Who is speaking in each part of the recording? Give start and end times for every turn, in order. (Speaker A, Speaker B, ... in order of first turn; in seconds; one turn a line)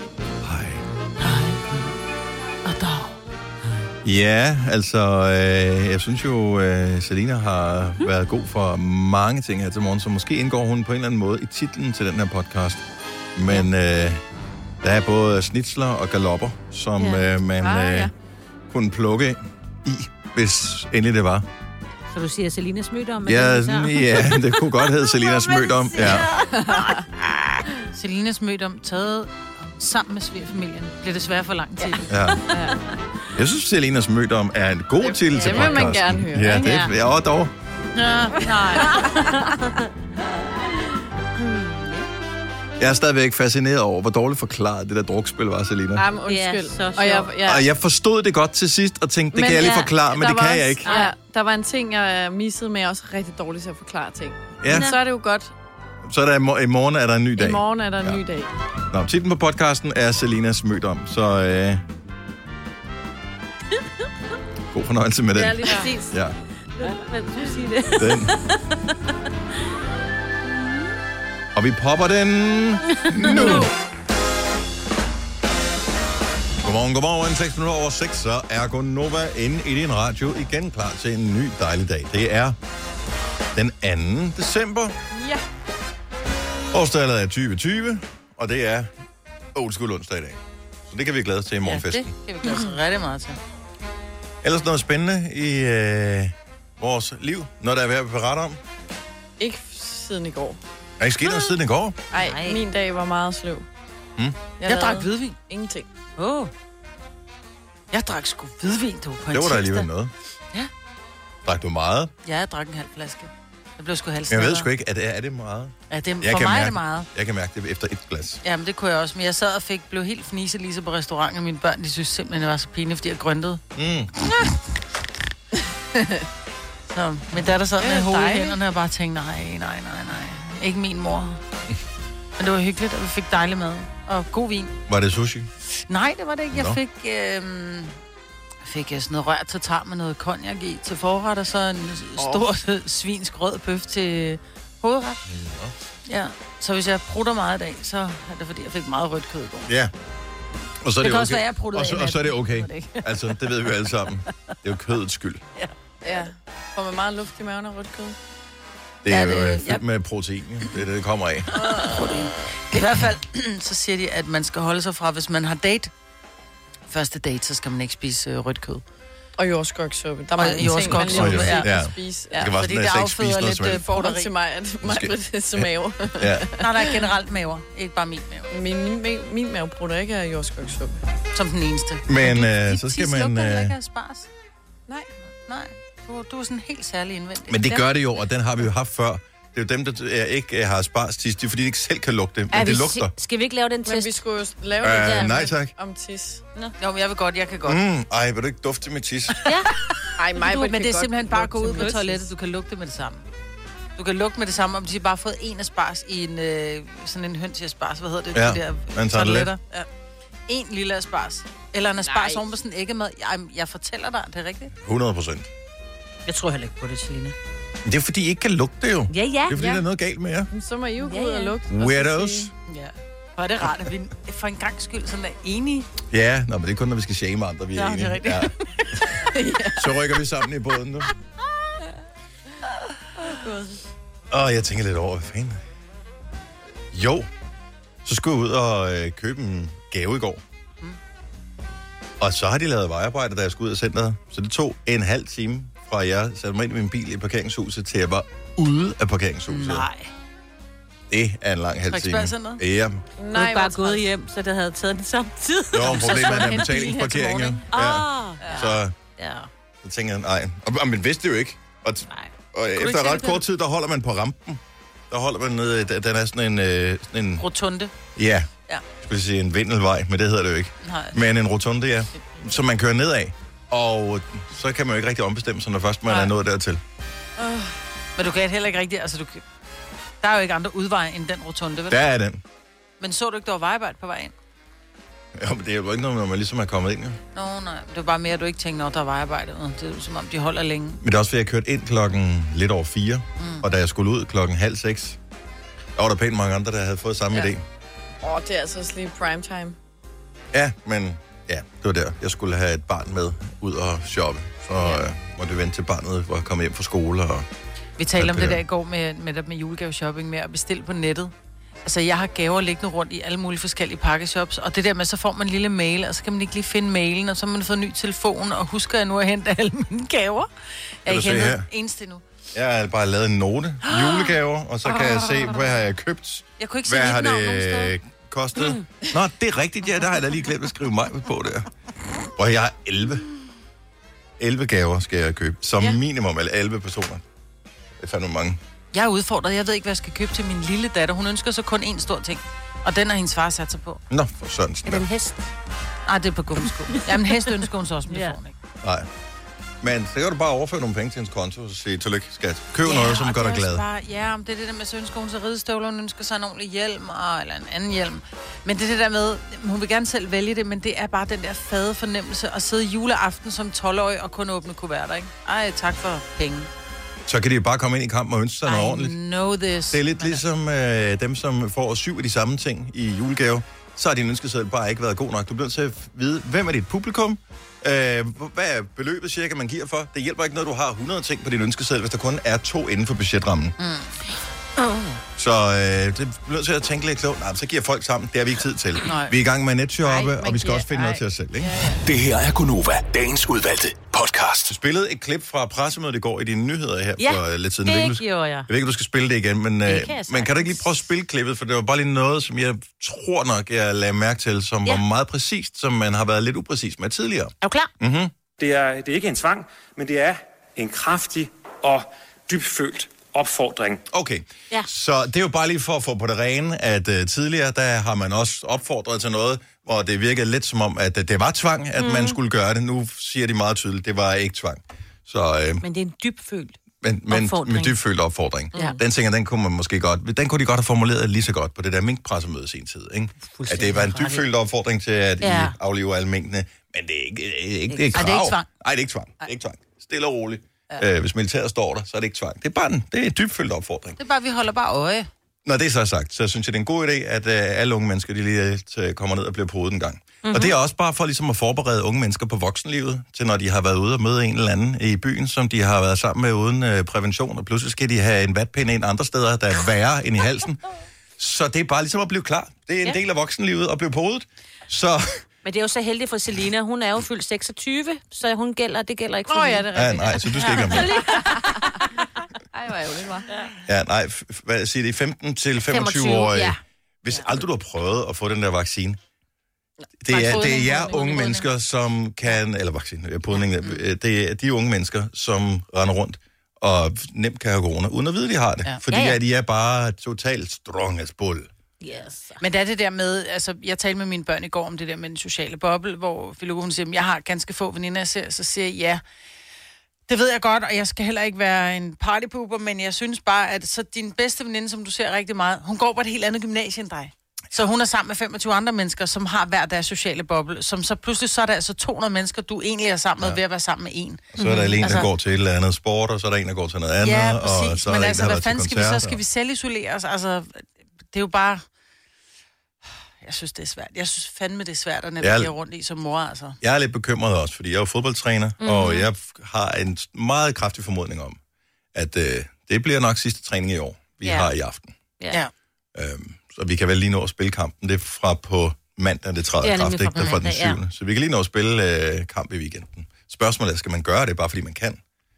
Speaker A: 0.4-0.8
Speaker B: 1.2-1.9
Speaker B: 2.6-3.1
Speaker A: 4.0-14.2
Speaker A: 14.8-18.1
Speaker B: 17.0-17.3
Speaker C: 17.6-18.1
Speaker A: 18.7-21.5
Speaker B: 22.1-26.9
Speaker A: 23.2-26.3
Speaker C: 26.5-27.1
Speaker D: 27.9-32.1
Speaker A: 32.1-32.4
Speaker C: 32.5-32.8
Speaker A: 33.4-37.5
Speaker C: 35.0-36.9
Speaker B: 35.5-35.9
Speaker B: 36.5-36.9
Speaker D: 38.0-39.3
Speaker C: 38.7-39.4
Speaker B: 39.0-39.5
Speaker B: 41.4-42.1
Speaker A: 42.8-46.1
Speaker C: 45.9-47.7
Speaker B: 46.2-47.4
Speaker A: 47.4-50.9
Speaker C: 49.3-55.5
Speaker B: 49.5-49.9
Speaker B: 50.9-51.1
Speaker A: 54.6-54.9
Speaker B: 54.7-55.0
Speaker A: 56.0-58.2
Speaker C: 57.4-58.5
Speaker A: 58.9-61.8
Speaker A: 64.7-66.4
Speaker C: 65.3-66.0
Speaker B: 65.6-66.1
Speaker B: 66.8-68.6
Speaker A: 68.0-68.3
Speaker A: 71.5-73.7
Speaker B: 73.2-73.7
Speaker C: 73.3-73.7
Speaker A: 76.6-82.6
Speaker A: 83.5-85.0
Speaker C: 85.1-85.4
Speaker A: 86.7-88.9
Speaker A: 89.5-92.1
Speaker D: 91.6-93.4
Speaker A: 94.4-98.6
Speaker C: 99.4-100.6
Speaker A: 101.0-102.0
Speaker B: 102.1-102.6
Speaker C: 102.1-103.7
Speaker C: 104.6-105.9
Speaker D: 104.7-105.4
Speaker B: 106.2-106.5
Speaker D: 107.9-109.9
Speaker A: 109.3-110.1
Speaker A: 111.5-112.1
Speaker D: 112.2-114.7
Speaker A: 114.3-118.4
Speaker D: 115.9-117.1
Speaker D: 118.4-123.6
Speaker A: 123.8-124.1
Speaker D: 126.9-131.4
Speaker C: 127.8-128.6
Speaker D: 132.4-134.8
Speaker A: 134.9-135.5
Speaker D: 135.8-137.9
Speaker A: 136.5-136.8
Speaker D: 138.6-145.2
Speaker A: 145.3-145.7
Speaker D: 146.1-149.7
Speaker A: 149.7-149.9
Speaker A: 150.8-155.4
Speaker D: 151.0-153.4
Speaker D: 155.6-156.3
Speaker C: 156.0-158.2
Speaker A: 159.0-161.6
Speaker D: 159.1-159.8
Speaker D: 161.5-165.9
Speaker D: 166.9-168.8
Speaker C: 169.4-172.5
Speaker D: 170.3-171.7
Speaker A: 171.1-173.9
Speaker D: 172.3-174.3
Speaker C: 173.8-177.0
Speaker A: 174.8-176.5
Speaker D: 176.6-178.5
Speaker C: 178.5-181.0
Speaker D: 181.3-184.3
Speaker A: 182.1-183.8
Speaker D: 185.5-187.9
Speaker A: 187.5-193.1
Speaker B: 192.5-194.2
Speaker C: 193.8-196.4
Speaker A: 194.8-195.7
Speaker D: 196.8-197.8
Speaker A: 197.7-199.4
Speaker B: 199.4-199.7
Speaker C: 200.2-202.2
Speaker D: 200.3-203.3
Speaker B: 201.7-202.1
Speaker D: 204.0-209.9
Speaker A: 208.3-209.5
Speaker D: 210.5-214.7
Speaker A: 214.8-215.5
Speaker B: 216.3-217.3
Speaker A: 217.8-220.5
Speaker B: 219.1-219.7
Speaker C: 219.6-219.8
Speaker C: 220.5-222.5
Speaker B: 221.0-221.6
Speaker A: 221.7-222.5
Speaker D: 222.7-225.9
Speaker A: 226.1-228.5
Speaker D: 227.8-228.5
Speaker C: 229.3-229.9
Speaker A: 229.8-231.1
Speaker A: 234.3-235.6
Speaker A: 236.9-237.3
Speaker A: 238.1-240.4
Speaker A: 242.2-249.9
Speaker D: 249.5-249.9
Speaker A: 251.1-253.0
Speaker D: 251.9-252.6
Speaker C: 253.2-254.1
Speaker B: 253.3-256.7
Speaker A: 255.7-258.9
Speaker D: 255.9-257.4
Speaker C: 256.3-257.5
Speaker B: 257.7-258.6
Speaker D: 258.4-258.7
Speaker B: 259.2-259.5
Speaker A: 259.8-267.5
Speaker B: 262.1-263.4
Speaker D: 267.4-267.9
Speaker A: 268.2-268.5
Speaker A: 269.0-276.8
Speaker D: 270.8-271.2
Speaker C: 277.4-277.7
Speaker D: 278.2-279.4
Speaker D: 280.2-282.0
Speaker A: 281.9-282.4
Speaker D: 283.0-284.3
Speaker A: 285.4-287.2
Speaker D: 287.3-291.0
Speaker A: 291.0-295.2
Speaker D: 293.4-293.6
Speaker A: 296.0-297.6
Speaker C: 298.2-299.8
Speaker A: 300.5-307.5
Speaker D: 308.0-311.3
Speaker A: 308.2-308.6
Speaker D: 311.9-320.5
Speaker D: 321.0-322.2
Speaker A: 321.1-321.7
Speaker A: 322.5-331.7
Speaker D: 326.6-328.0
Speaker A: 332.4-333.2
Speaker A: 334.4-337.2
Speaker A: 338.0-338.6
Speaker D: 338.9-344.0
Speaker A: 344.1-345.1
Speaker B: 344.9-345.5
Speaker D: 346.1-348.6
Speaker B: 347.0-347.5
Speaker B: 348.1-348.4
Speaker A: 348.8-349.1
Speaker A: 349.8-353.9
Speaker D: 352.8-366.7
Speaker A: 367.3-369.1
Speaker D: 368.6-370.4
Speaker A: 369.9-383.8
Speaker D: 383.8-384.2
Speaker B: 384.8-385.0
Speaker A: 385.4-391.9
Speaker D: 389.1-389.4
Speaker C: 390.2-392.0
Speaker E: 392.1-394.7
Speaker A: 394.7-408.3
Speaker B: 397.2-398.7
Speaker B: 399.9-400.8
Speaker B: 407.6-407.9
Speaker F: 408.6-414.0
Speaker A: 414.1-425.8
Speaker B: 422.0-422.4
Speaker B: 425.8-427.9
Speaker A: 427.0-444.2
Speaker B: 433.5-434.5
Speaker B: 435.4-435.8
Speaker B: 437.9-438.2
Speaker D: 438.1-438.7
Speaker D: 444.2-445.3
Speaker A: 445.6-460.8
Speaker B: 450.4-450.7
Speaker A: 461.4-465.4
Speaker B: 465.6-471.9
Speaker C: 469.5-469.9
Speaker A: 469.9-471.1
Speaker D: 470.5-471.1
Speaker C: 471.4-472.0
Speaker C: 472.7-473.5
Speaker A: 473.9-479.2
Speaker B: 475.9-476.8
Speaker A: 480.2-491.7
Speaker B: 480.3-481.5
Speaker D: 480.3-481.7
Speaker D: 483.6-484.0
Speaker B: 489.1-489.4
Speaker B: 492.0-492.6
Speaker D: 492.6-499.2
Speaker D: 500.3-515.3
Speaker A: 514.5-519.4
Speaker B: 514.6-515.3
Speaker D: 517.2-521.8
Speaker D: 523.4-526.8
Speaker A: 525.4-525.7
Speaker A: 526.8-531.6
Speaker B: 528.8-529.3
Speaker A: 532.1-535.1
Speaker B: 534.4-534.7
Speaker A: 536.1-545.2
Speaker B: 539.8-541.0